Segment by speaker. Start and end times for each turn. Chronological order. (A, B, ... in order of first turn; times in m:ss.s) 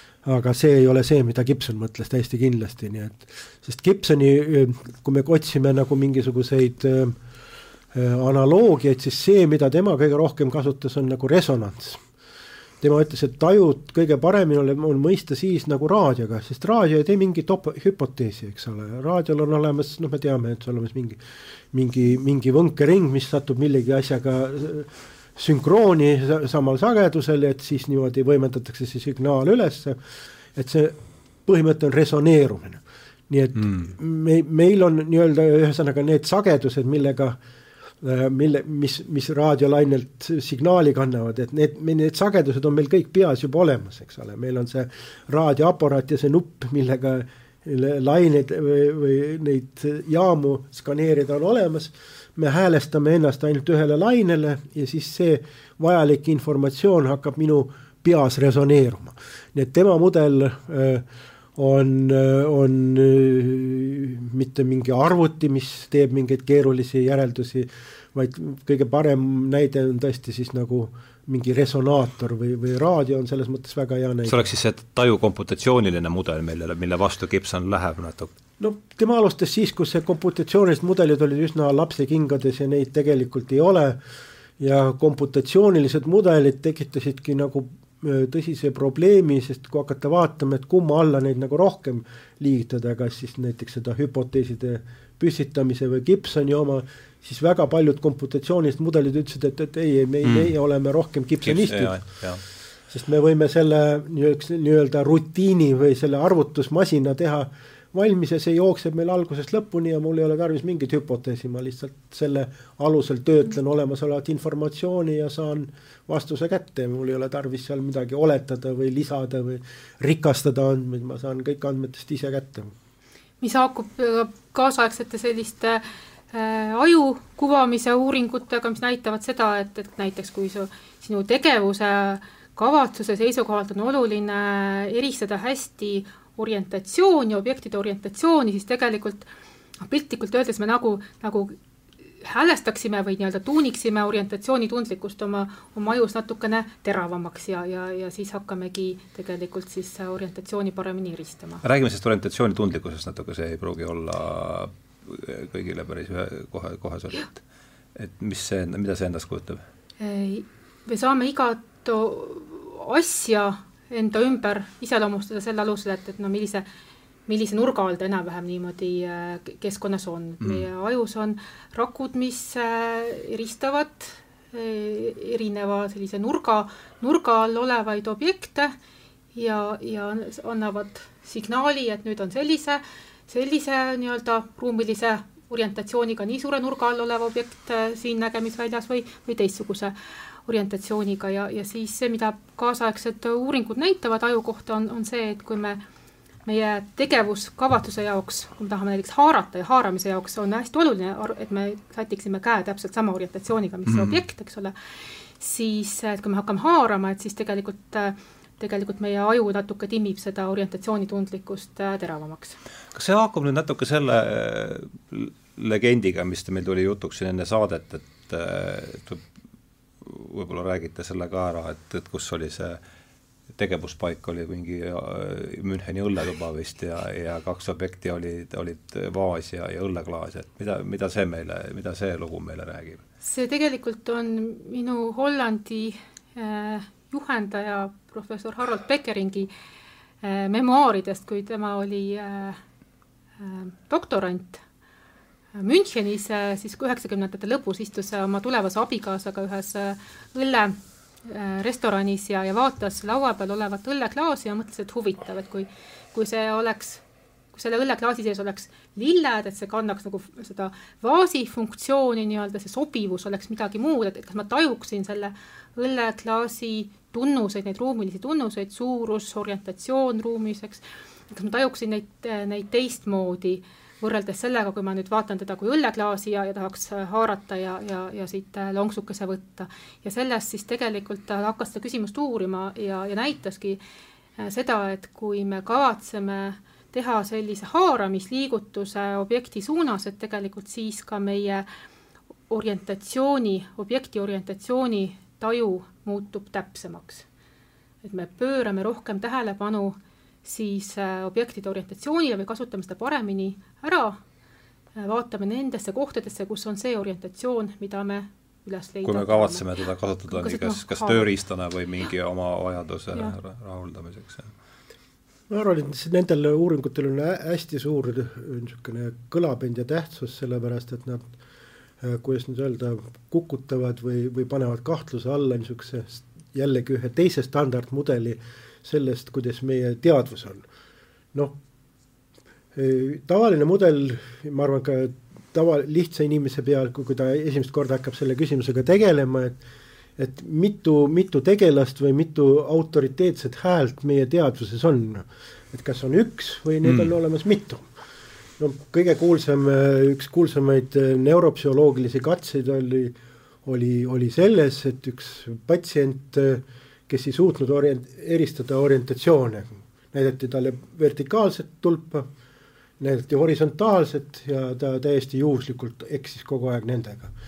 0:00.2-0:07.2 A
0:07.9-0:12.0 A
0:12.8-0:21.2 A
0:21.7-0:30.0 A
0:30.5-0:37.4 A
0:33.6-0:33.9 B
0:38.0-1:14.4 A
1:14.3-1:18.3 B
1:18.6-1:24.0 A
1:24.6-1:42.0 A
1:40.2-1:40.5 B
1:41.4-1:42.4 B
1:42.9-2:02.7 A
2:03.4-2:19.3 C
2:19.8-2:21.6 C
2:22.2-2:31.6 C
2:31.6-2:37.4 B
2:37.9-2:39.6 B
2:40.0-2:46.6 C
2:47.3-2:58.7 C
2:59.3-3:09.9 C
3:10.4-3:15.8 C
3:16.4-3:24.7 C
3:23.9-3:24.2 B
3:25.4-3:32.6 C
3:32.9-3:39.2 B
3:40.0-3:42.8 B
3:43.6-3:53.0 B
3:53.2-3:59.5 C
4:00.2-4:02.6 C
4:03.4-4:04.6 C
4:05.5-4:43.8 C
4:44.4-4:51.6 C
4:52.5-4:57.2 C
4:58.0-5:04.2 C
5:05.0-5:09.7 C
5:09.0-5:14.5 B
5:10.3-5:11.3 C
5:15.5-5:21.2 A
5:22.0-5:30.6 A
5:32.7-5:39.6 A
5:40.2-5:47.9 A
5:46.8-5:47.1 B
5:48.6-6:02.3 A
6:03.0-6:07.3 A